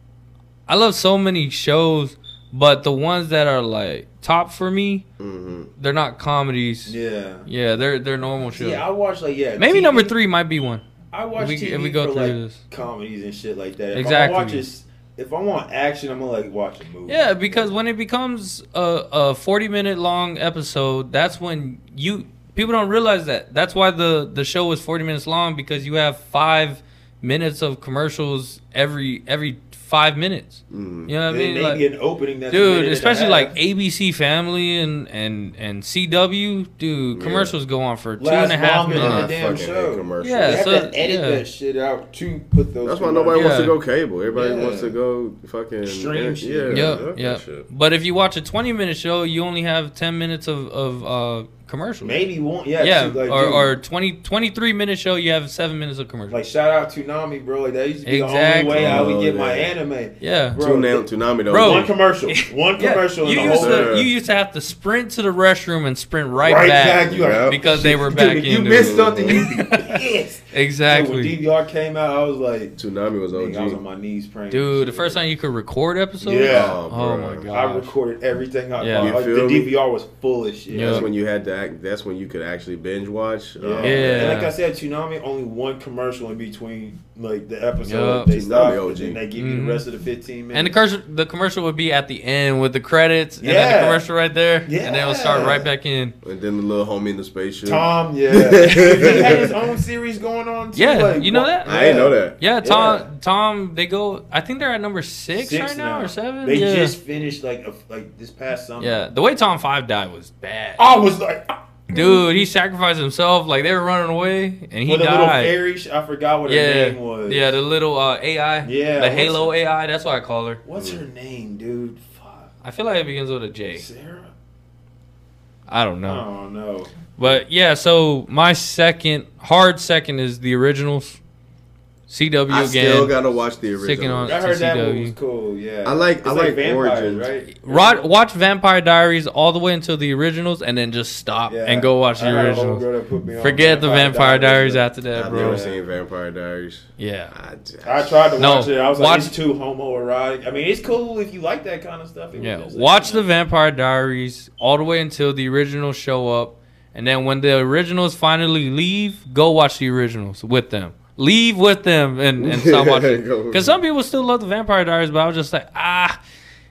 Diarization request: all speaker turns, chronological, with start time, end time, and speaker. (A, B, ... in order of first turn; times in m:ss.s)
0:00.7-0:05.0 A
0:05.2-0:05.7 B
0:05.8-0:08.8 A
0:06.9-0:07.5 C
0:08.6-0:10.1 C
0:09.6-0:10.8 A
0:11.1-0:17.7 C
0:11.4-0:12.6 A
0:13.9-0:14.6 A
0:17.1-0:31.8 A
0:30.7-0:31.1 B
0:31.3-0:33.5 C
0:32.5-0:39.3 A
0:37.2-0:37.6 B
0:38.2-0:43.6 C
0:38.9-0:40.6 B
0:40.2-0:41.4 A
0:42.8-0:47.7 B
0:43.3-0:43.8 A
0:44.3-0:45.0 C
0:45.8-0:47.1 C
0:46.7-0:52.2 A
0:52.0-0:53.8 C
0:52.8-0:56.4 A
0:56.3-1:03.9 C
0:58.1-0:59.1 A
0:58.7-0:59.7 B
1:00.2-1:00.6 A
1:00.6-1:01.9 B
1:01.5-1:10.0 A
1:03.4-1:04.1 B
1:06.4-1:12.8 C
1:07.1-1:07.6 B
1:08.7-1:09.5 B
1:10.5-1:11.4 A
1:12.8-1:13.8 B
1:13.3-1:15.2 C
1:14.5-1:17.9 A
1:16.2-1:16.8 C
1:16.5-1:17.5 B
1:17.5-1:21.1 C
1:18.8-1:19.2 A
1:19.0-1:19.7 B
1:20.7-1:21.1 A
1:20.8-1:24.4 B
1:23.6-1:30.8 C
1:23.8-1:24.5 A
1:27.8-1:28.3 A
1:28.3-1:29.2 B
1:29.4-1:29.8 A
1:30.5-1:36.2 A
1:33.4-1:34.0 C
1:34.7-1:35.7 C
1:36.2-1:39.5 B
1:37.6-1:43.1 C
1:38.9-1:39.5 A
1:40.8-1:41.7 A
1:41.6-1:42.4 B
1:42.4-1:47.0 A
1:45.3-1:49.0 C
1:48.8-1:50.8 A
1:50.8-1:52.3 C
1:51.9-1:55.5 A
1:54.9-1:57.6 C
1:56.5-2:00.6 A
1:58.6-1:59.5 C
2:00.6-2:02.5 C
2:00.8-2:01.0 B
2:02.6-2:03.9 A
2:03.7-2:04.3 C
2:05.7-2:06.2 A
2:06.0-2:07.0 C
2:07.2-2:11.2 A
2:12.1-2:13.2 A
2:12.5-2:14.4 B
2:13.8-2:15.2 A
2:14.2-2:18.1 C
2:15.8-2:17.3 B
2:17.6-2:22.8 A
2:21.5-2:25.8 C
2:23.4-2:25.6 A
2:25.2-2:28.3 B
2:27.0-2:27.3 A
2:27.8-2:33.3 C
2:28.4-2:29.3 A
2:32.4-2:46.2 A
2:42.4-2:43.8 B